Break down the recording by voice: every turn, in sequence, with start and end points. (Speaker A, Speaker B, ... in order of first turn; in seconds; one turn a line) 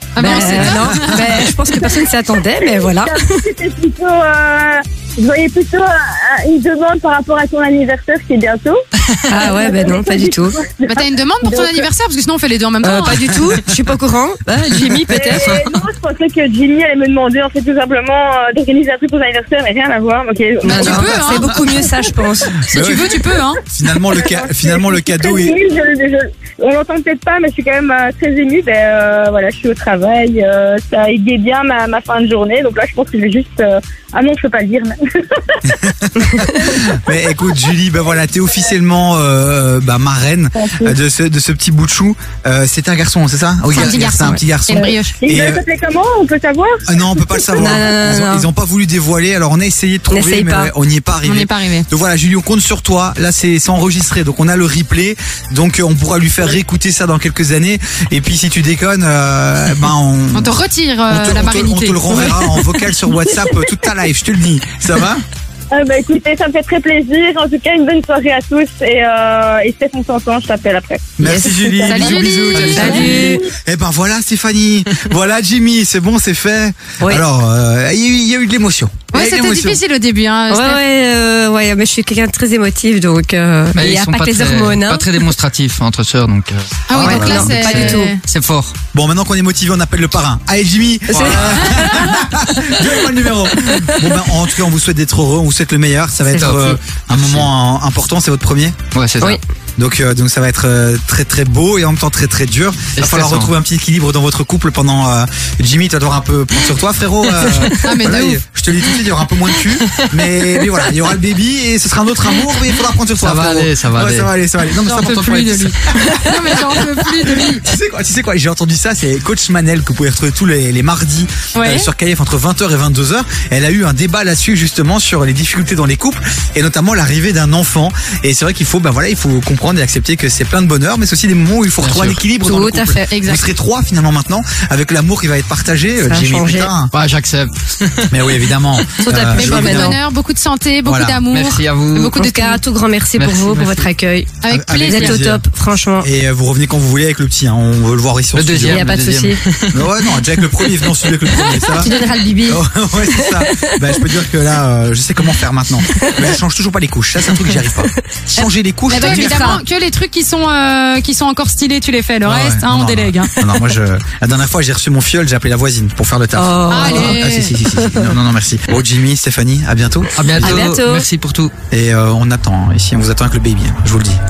Speaker A: 0.1-1.5
Speaker B: 0.2-3.4
Speaker C: 0.2-0.8
Speaker C: 1.7-2.0
Speaker C: 2.8-8.8
Speaker B: 9.3-10.6
Speaker C: 9.3-11.9
Speaker A: 10.9-13.5
Speaker B: 12.8-15.6
Speaker C: 15.0-21.9
Speaker B: 20.6-22.6
Speaker A: 20.6-21.5
Speaker A: 22.7-23.6
Speaker D: 22.7-25.6
Speaker C: 24.1-35.4
Speaker D: 35.6-45.6
Speaker C: 40.5-40.9
Speaker A: 43.7-45.2
Speaker C: 44.7-47.7
Speaker D: 46.9-60.5
Speaker B: 47.5-48.5
Speaker B: 50.1-50.7
Speaker A: 51.2-51.9
Speaker A: 60.3-62.6
Speaker D: 61.1-65.2
Speaker C: 63.1-63.5
Speaker C: 65.7-72.2
Speaker D: 71.2-79.8
Speaker B: 71.2-71.5
Speaker A: 71.8-73.2
Speaker B: 72.5-73.5
Speaker C: 72.7-73.5
Speaker A: 79.1-80.8
Speaker B: 80.5-85.1
Speaker E: 83.7-88.8
Speaker A: 86.9-88.2
Speaker D: 86.9-87.5
Speaker B: 87.0-88.1
Speaker D: 88.9-98.8
Speaker B: 91.1-91.6
Speaker E: 91.1-92.0
Speaker B: 96.3-96.8
Speaker E: 96.4-97.5
Speaker E: 98.9-99.4
Speaker D: 99.8-136.9
Speaker E: 103.0-103.5
Speaker E: 107.5-107.7
Speaker A: 107.8-108.4
Speaker E: 109.6-110.3
Speaker E: 113.2-114.3
Speaker A: 114.7-117.7
Speaker A: 121.5-121.9
Speaker E: 131.8-132.2
Speaker B: 132.4-133.1
Speaker A: 133.1-133.5
Speaker B: 136.0-136.7
Speaker E: 136.9-138.5
Speaker D: 138.1-140.0
Speaker B: 139.0-140.0
Speaker A: 139.3-142.6
Speaker D: 140.8-141.2
Speaker E: 141.3-142.1
Speaker B: 142.1-144.3
Speaker E: 143.1-143.9
Speaker A: 144.4-145.2
Speaker D: 144.5-145.4
Speaker B: 144.9-146.1
Speaker D: 146.0-148.9
Speaker E: 148.3-149.8
Speaker B: 148.7-149.4
Speaker D: 149.7-151.9
Speaker A: 151.3-152.5
Speaker B: 151.8-154.1
Speaker D: 152.5-159.6
Speaker B: 155.9-156.3
Speaker B: 157.4-157.6
Speaker B: 158.3-159.6
Speaker A: 158.9-163.3
Speaker D: 162.2-170.6
Speaker B: 166.3-168.2
Speaker A: 166.7-167.5
Speaker E: 170.2-171.5
Speaker B: 170.4-171.1
Speaker D: 171.7-174.2